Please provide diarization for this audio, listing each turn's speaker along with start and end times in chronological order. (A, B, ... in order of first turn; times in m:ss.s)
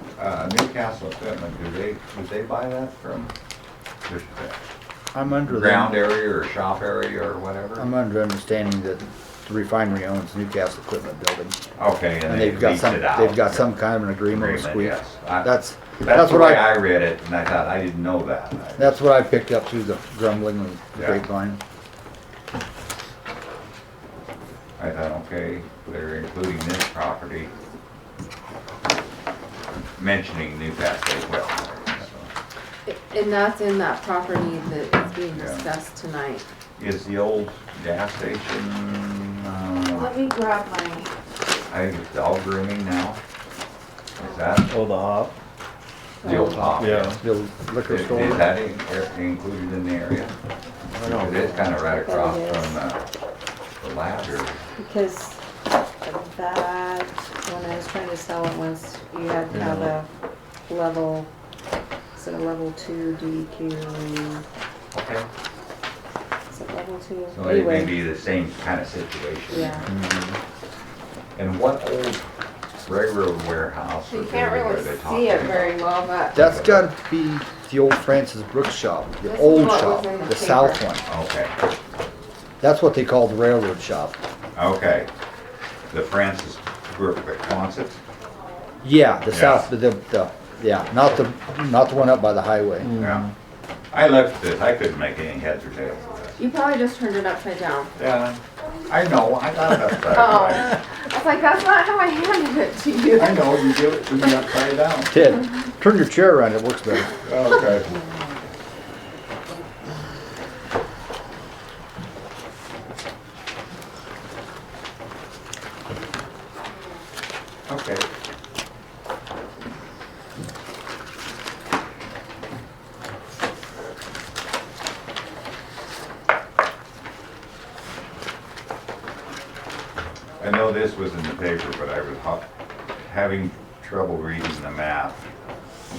0:00.2-0:03.3 A
0:04.0-0:04.6 A
0:05.1-0:06.0 B
0:05.4-0:07.9 A
0:07.8-0:11.6 B
0:11.8-0:19.0 A
0:12.3-0:16.8 B
0:18.8-0:21.6 B
0:21.0-0:21.2 A
0:24.8-0:27.5 A
0:30.0-0:32.3 A
0:32.9-0:36.5 C
0:35.3-0:35.7 A
0:36.8-0:40.2 A
0:39.9-0:41.1 C
0:41.7-0:43.2 A
0:44.2-0:44.7 A
0:44.7-0:45.4 D
0:46.2-0:47.2 A
0:46.2-0:48.5 B
0:46.8-0:47.2 D
0:47.8-0:50.4 A
0:50.9-0:51.7 D
0:51.0-0:53.0 A
0:51.9-0:52.8 E
0:53.8-0:54.6 A
0:54.8-0:55.4 E
0:56.0-1:00.1 E
0:59.5-1:00.0 D
1:00.7-1:01.3 E
1:02.2-1:04.4 E
1:04.9-1:05.3 A
1:06.5-1:07.9 E
1:07.3-1:10.0 A
1:09.5-1:09.8 E
1:09.9-1:10.2 D
1:11.4-1:12.2 A
1:12.8-1:15.7 A
1:14.1-1:16.4 C
1:16.3-1:21.0 B
1:16.4-1:16.9 A
1:19.2-1:20.8 C
1:21.0-1:21.6 A
1:22.6-1:24.2 B
1:24.6-1:25.1 A
1:25.9-1:28.0 A
1:28.8-1:33.0 B
1:29.3-1:29.7 A
1:32.8-1:33.3 D
1:33.0-1:33.3 A
1:33.9-1:36.4 A
1:36.4-1:37.9 C
1:38.0-1:40.8 A
1:40.0-1:43.8 C
1:43.1-1:45.2 A
1:45.1-1:47.1 B
1:47.2-1:47.9 A
1:57.7-1:58.0 A
2:10.4-2:12.5 A
2:13.0-2:15.3 A